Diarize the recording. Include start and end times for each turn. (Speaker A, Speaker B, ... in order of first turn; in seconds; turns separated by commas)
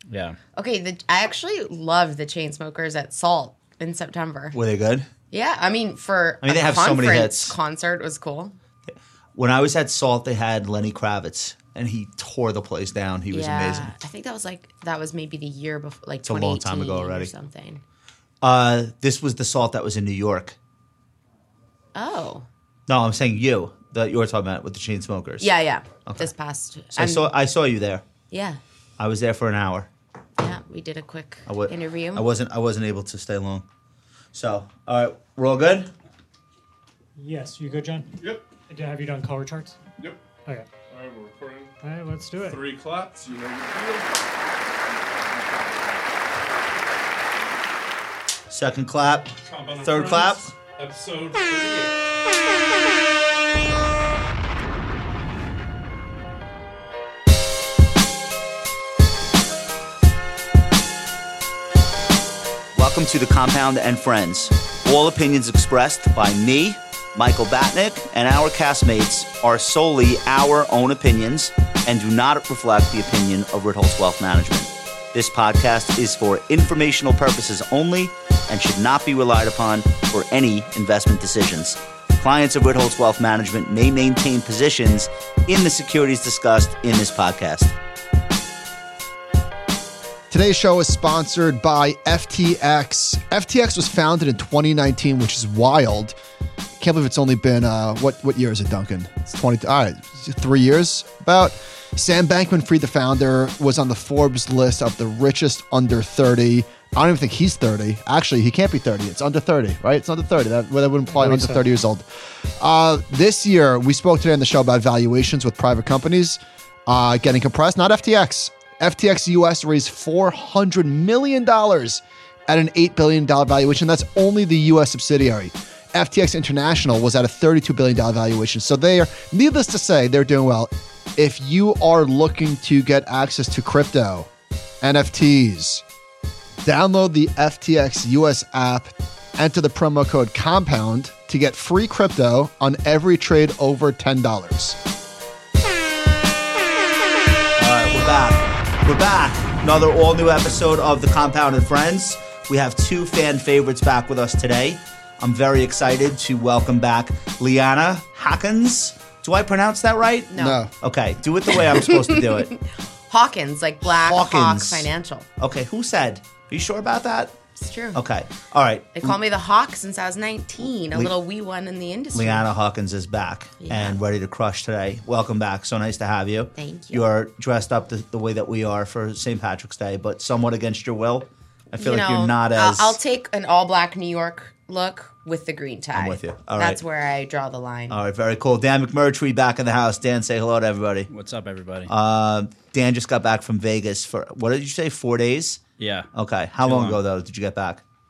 Speaker A: 0.1-0.4, Speaker B: 0.6-4.6, Speaker C: 4.5-5.1, Speaker B: 5.3-8.5, Speaker C: 6.4-7.5, Speaker C: 8.9-13.9, Speaker B: 13.3-17.8, Speaker C: 16.2-17.3, Speaker C: 18.4-20.6, Speaker B: 21.9-22.5, Speaker C: 22.9-25.5, Speaker B: 25.4-27.3, Speaker C: 26.9-28.0, Speaker B: 28.3-28.6, Speaker C: 29.0-29.9, Speaker B: 30.4-32.2, Speaker C: 31.5-33.7, Speaker C: 34.3-35.9, Speaker D: 37.2-38.1, Speaker E: 38.2-38.5, Speaker D: 38.7-39.8, Speaker E: 40.9-41.7, Speaker D: 41.8-42.7, Speaker E: 42.4-46.0, Speaker C: 48.5-50.5, Speaker E: 49.5-52.0, Speaker C: 62.8-87.7, Speaker F: 90.3-96.2, Speaker F: 96.8-134.3, Speaker F: 134.8-135.8, Speaker F: 136.6-144.8, Speaker C: 147.6-162.5, Speaker B: 160.3-160.6, Speaker F: 160.4-160.7, Speaker B: 161.6-165.3, Speaker C: 163.9-167.3, Speaker B: 167.6-168.0, Speaker C: 167.9-169.2, Speaker B: 168.9-172.5, Speaker C: 172.1-183.0, Speaker B: 173.6-174.0, Speaker B: 176.6-177.1, Speaker B: 181.8-188.0, Speaker C: 185.9-186.8, Speaker C: 187.9-191.1, Speaker A: 191.1-191.9, Speaker C: 191.9-195.6, Speaker A: 195.8-196.1, Speaker C: 196.1-197.8, Speaker A: 196.6-197.0